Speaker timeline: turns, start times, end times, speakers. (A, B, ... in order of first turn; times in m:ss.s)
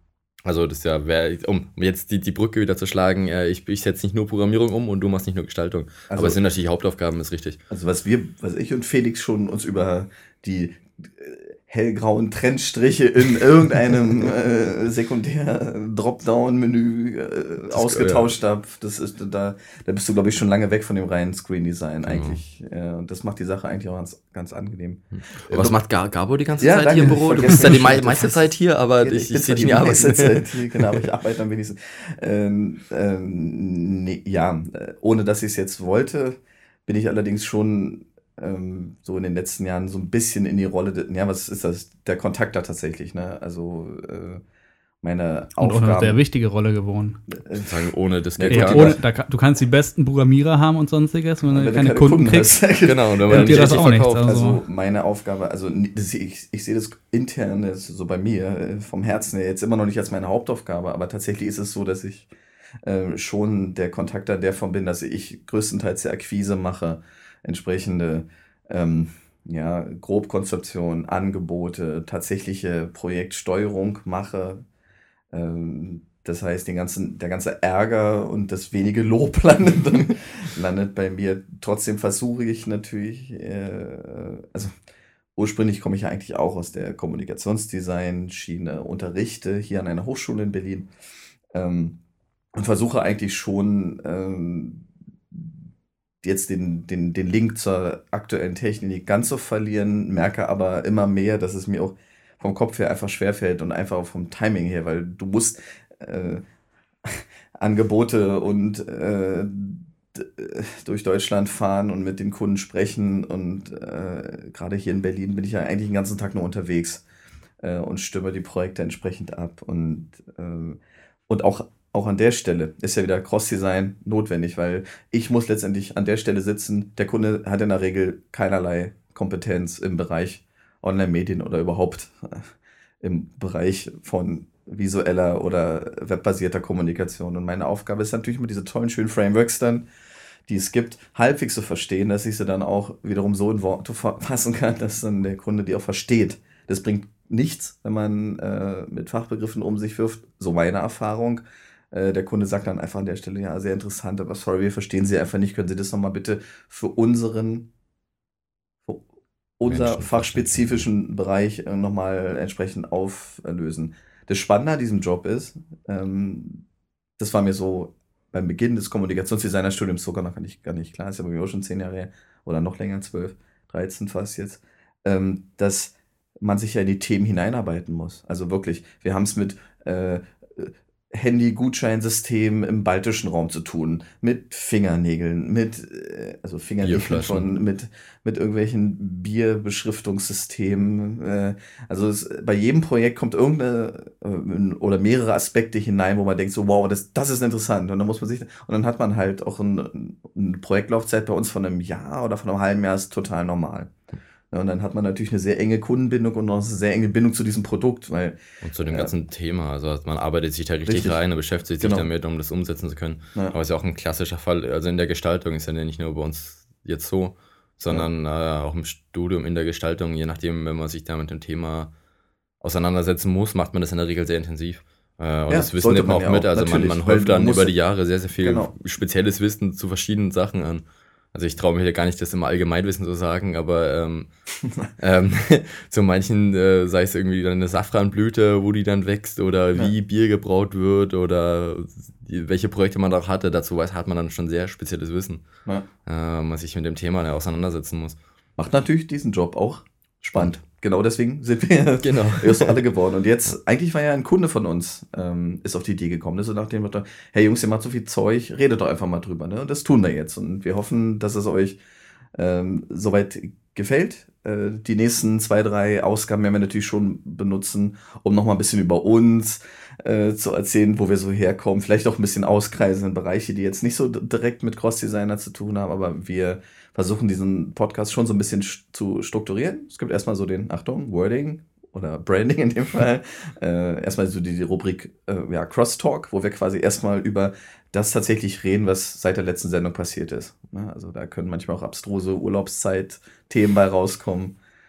0:00.4-0:07.6 A
0:06.1-0:06.4 B
0:07.7-0:25.7 B
0:17.7-0:18.3 A
0:22.0-0:22.4 A
0:25.1-0:31.0 A
0:26.6-0:44.4 B
0:45.0-0:46.2 B
0:45.6-0:47.2 C
0:47.3-0:47.8 B
0:47.6-0:49.0 A
0:48.4-0:49.0 B
0:48.5-0:52.7 C
0:51.5-1:02.3 B
0:52.8-0:54.3 A
0:53.3-0:54.6 C
1:02.8-1:14.6 B
1:15.3-1:24.7 B
1:25.4-1:30.9 B
1:31.5-1:32.0 B
1:32.5-1:35.6 B
1:36.2-1:46.4 B
1:47.0-1:57.0 B
1:57.6-2:12.5 B
2:13.0-2:19.8 B
2:20.5-2:37.7 B
2:39.6-2:46.6 B
2:39.6-2:40.9 A
2:47.2-3:23.9 B
3:06.8-3:07.5 A
3:24.5-3:29.1 B
3:28.6-3:41.9 A
3:30.8-3:31.2 B
3:31.8-3:32.1 B
3:42.6-3:54.3 A
3:45.5-3:47.8 B
3:48.4-3:48.7 B
3:55.0-4:05.4 A
4:06.0-4:08.2 A
4:08.6-4:21.8 B
4:10.2-4:10.6 A
4:12.0-4:12.8 A
4:22.3-4:54.6 B